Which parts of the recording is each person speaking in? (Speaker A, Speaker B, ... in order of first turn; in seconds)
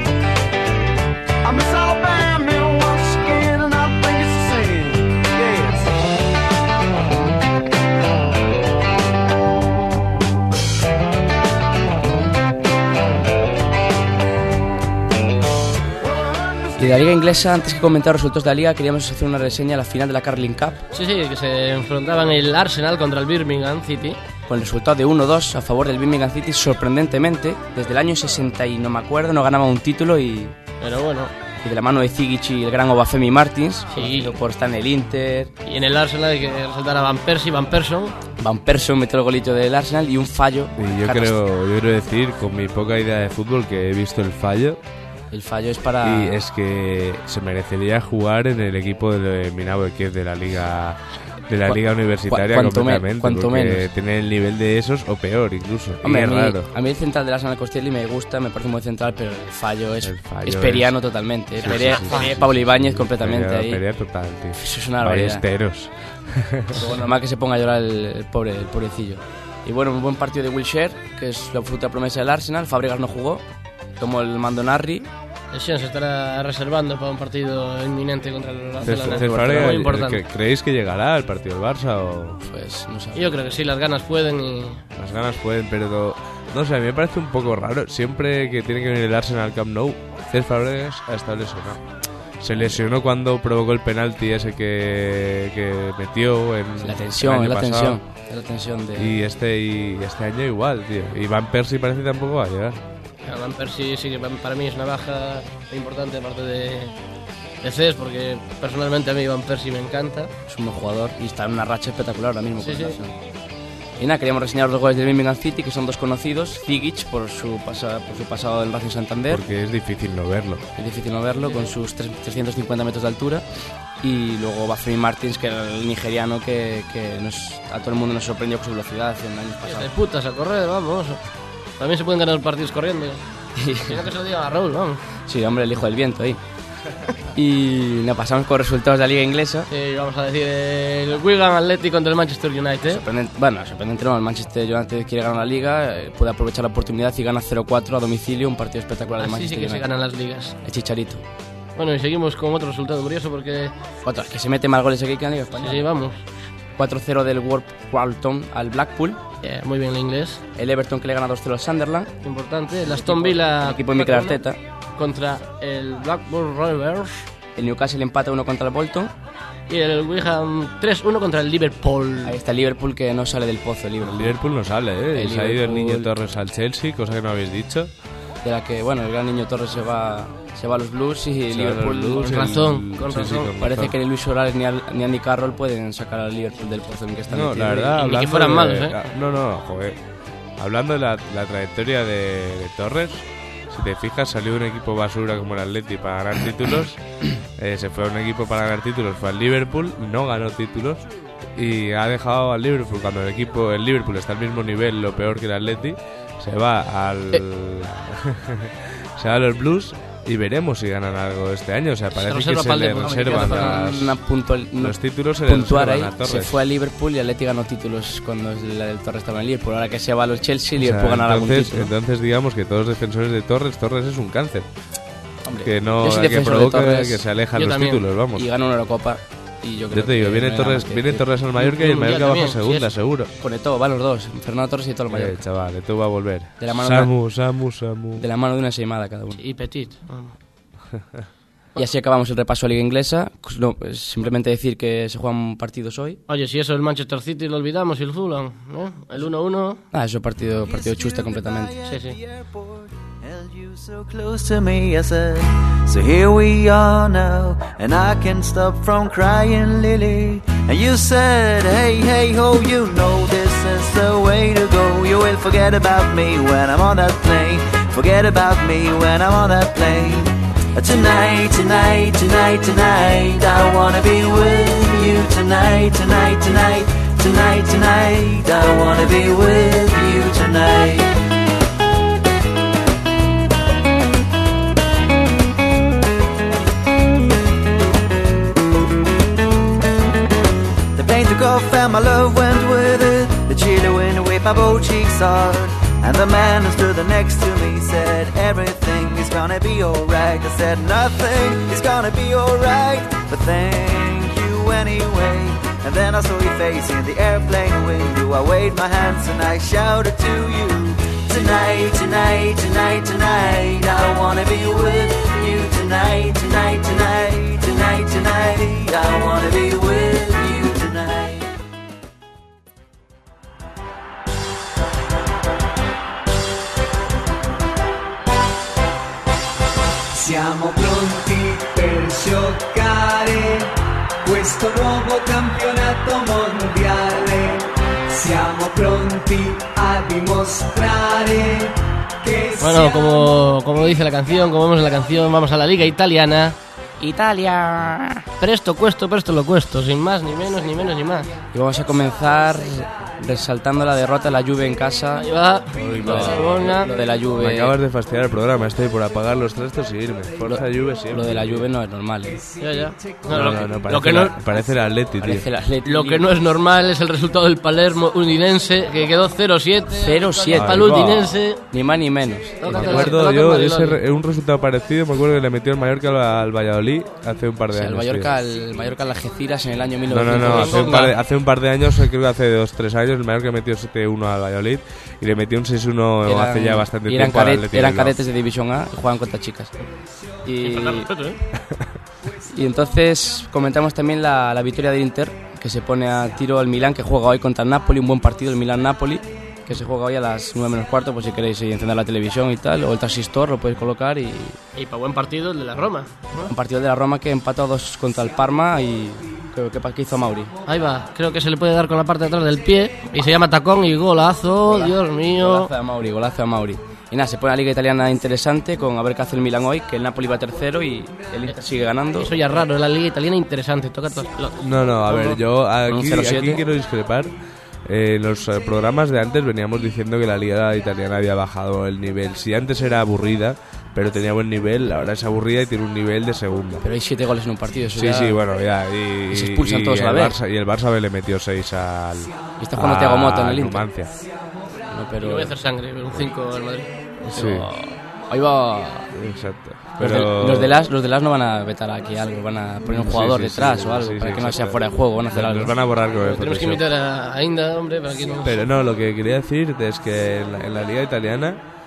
Speaker A: 1.6-4.7
Speaker B: 16.8-20.8, 24.5-30.6, 31.6-35.5, 38.4-41.4, 45.3-46.4, 51.7-53.9, 56.0-63.8, 64.6-65.5, 66.7-73.4, 74.0-75.1, 78.9-79.8, 82.4-83.3, 96.8-99.1, 110.5-113.2, 114.0-119.4, 120.8-123.5, 124.0-129.9, 133.6-134.1, 135.3-136.4, 137.3-139.7, 142.9-149.9, 150.6-151.2, 154.0-155.9, 156.8-159.2, 160.6-162.1, 162.9-164.6, 167.6-169.1, 172.2-174.4, 175.1-176.1, 178.4-182.7, 183.6-188.0, 213.0-221.9, 225.5-227.2, 228.3-231.3, 233.4-235.4, 236.6-237.1, 238.2-239.4, 241.8-246.2, 249.9-251.8, 347.0-348.3, 351.5-355.3, 356.0-357.7, 360.4-362.4, 365.2-366.3, 369.9-373.2, 377.7-381.1, 386.2-389.7, 390.4-391.1, 392.5-404.6, 406.4-410.5, 414.7-422.4, 425.9-426.6, 436.8-438.4, 439.3-440.4, 442.6-443.9, 444.9-445.6, 447.3-449.1, 450.0-455.8
Speaker C: 20.9-24.2, 30.8-31.3, 33.9-34.4, 35.7-38.2, 75.5-80.2, 83.1-84.8, 103.2-107.0, 107.6-110.3, 112.6-113.0, 121.4-121.7, 129.7-131.2, 131.8-133.2, 133.8-135.0, 139.7-143.0, 149.2-150.6, 151.8-153.8, 155.6-156.2, 159.4-160.4, 162.2-164.4, 165.0-167.3, 169.7-172.4, 182.2-183.5, 188.0-189.1, 212.1-213.8, 227.6-228.0, 231.6-232.9, 239.4-240.3, 246.3-249.8, 251.8-252.2, 342.6-346.6, 348.4-351.3, 355.2-356.9, 362.6-364.4, 365.9-371.6, 372.6-374.0, 380.3-381.1, 390.6-391.4, 404.8-406.5, 410.7-415.7, 422.2-425.4, 445.2-446.9, 456.2-458.6
Speaker D: 40.8-44.8, 46.0-56.7, 60.0-61.0, 61.6-66.8, 78.8-82.4, 85.0-91.8, 92.4-98.0, 99.0-102.8, 119.3-120.7, 174.0-177.9, 181.5-183.9, 187.3-190.0, 190.6-197.0, 197.6-201.0, 201.6-214.2, 214.8-216.6, 220.8-224.7, 225.6-228.5, 229.9-233.3, 235.1-238.2, 355.8-356.6, 357.4-361.7, 363.3-365.5, 370.6-371.2, 372.7-378.3, 380.1-388.2, 424.6-427.3, 427.9-436.8, 438.0-444.1, 447.3-447.7, 449.1-450.8, 452.9-456.8, 458.4-461.6
Speaker E: 250.6-281.1, 290.9-321.5
Speaker F: 330.1-333.7, 334.2-343.2